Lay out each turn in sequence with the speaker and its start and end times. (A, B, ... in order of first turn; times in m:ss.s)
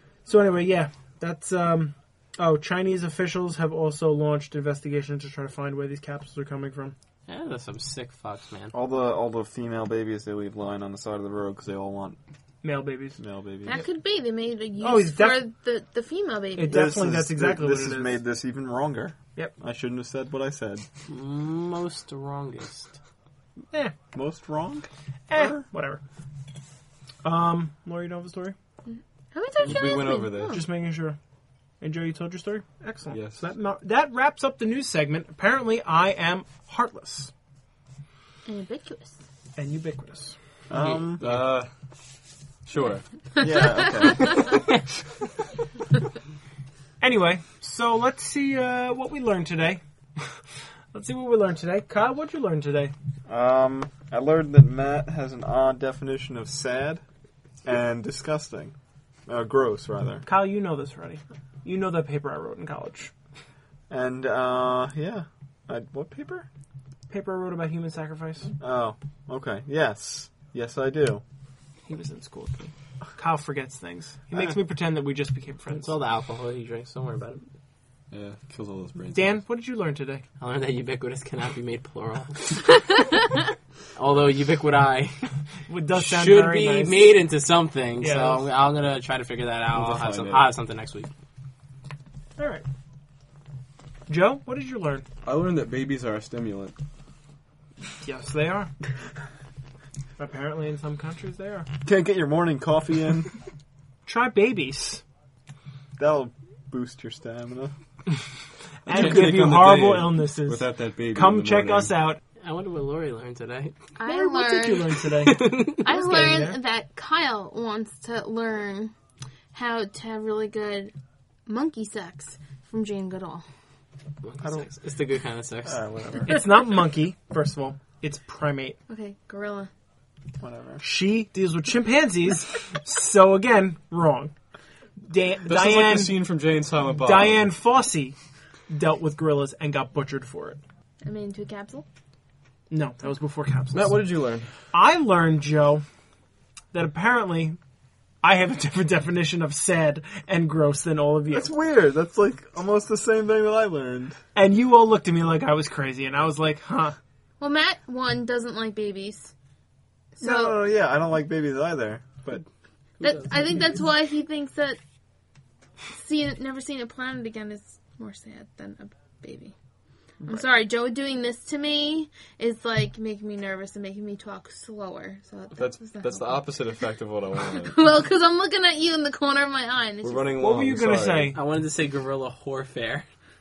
0:00.3-0:07.0 A
0:07.3-0:08.7 B
0:08.7-0:12.2 C
0:12.6-0:13.2 A
0:13.2-0:13.8 C
0:13.6-0:16.8 D
0:14.8-0:15.4 A
0:16.6-0:18.2 A
0:16.7-0:20.9 C
0:21.1-0:23.0 B
0:24.1-0:25.6 C
0:25.3-0:26.0 A
0:27.2-0:28.6 A
0:28.9-0:30.7 D
0:29.6-0:30.6 E
0:30.5-0:31.2 A
0:31.8-0:37.3 A
0:33.1-0:33.4 E
0:38.5-0:39.2 D
0:39.6-0:40.4 A
0:40.7-0:41.4 C
0:40.7-0:41.4 B
0:41.2-0:41.7 E
0:42.7-0:43.6 E
0:43.4-0:44.6 C
0:43.5-0:44.4 D
0:47.0-0:50.2 A
0:50.9-0:52.9 A
0:53.3-0:57.0 C
0:57.6-0:58.7 C
0:59.3-1:00.3 C
1:00.2-1:03.1 A
1:03.9-1:06.5 C
1:07.1-1:08.5 A
1:08.6-1:11.2 C
1:11.9-1:16.0 A
1:15.8-1:17.4 B
1:18.1-1:19.4 E
1:19.1-1:20.2 A
1:20.4-1:22.7 B
1:24.0-1:25.3 B
1:25.7-1:27.2 A
1:25.9-1:31.1 B
1:28.0-1:28.5 A
1:29.7-1:30.5 E
1:32.4-1:32.6 A
1:34.1-1:35.0 A
1:35.2-1:36.8 E
1:38.0-1:38.7 A
1:40.2-1:41.7 A
1:41.8-1:43.3 C
1:44.1-1:45.0 A
1:46.0-1:47.7 C
1:48.9-1:51.9 E
1:48.9-1:52.2 A
1:52.4-1:53.8 B
1:54.0-1:55.0 D
1:54.0-1:56.6 A
1:55.2-1:55.8 B
1:55.8-1:58.9 D
1:59.5-2:00.9 D
2:01.5-2:03.4 D
2:04.2-2:05.8 B
2:04.4-2:04.7 C
2:05.6-2:06.4 C
2:06.3-2:08.8 A
2:08.9-2:09.7 D
2:10.4-2:10.8 C
2:10.8-2:14.3 A
2:15.1-2:16.2 A
2:15.5-2:17.5 E
2:17.0-2:18.2 A
2:18.7-2:20.6 A
2:21.0-2:21.9 D
2:22.7-2:24.0 A
2:23.7-2:24.5 E
2:24.7-2:25.8 A
2:26.7-2:27.6 A
2:28.2-2:31.5 A
2:31.3-2:34.2 C
2:34.4-2:37.0 A
2:37.4-2:39.3 D
2:40.2-2:40.6 D
2:40.2-2:42.4 C
2:43.0-2:43.8 B
2:43.0-2:44.8 D
2:45.9-2:49.5 D
2:50.2-2:50.5 A
2:50.2-2:56.4 D
2:55.6-2:58.0 E
2:57.6-3:00.3 D
3:00.0-3:01.4 E
3:00.4-3:01.4 A
3:01.4-3:03.0 B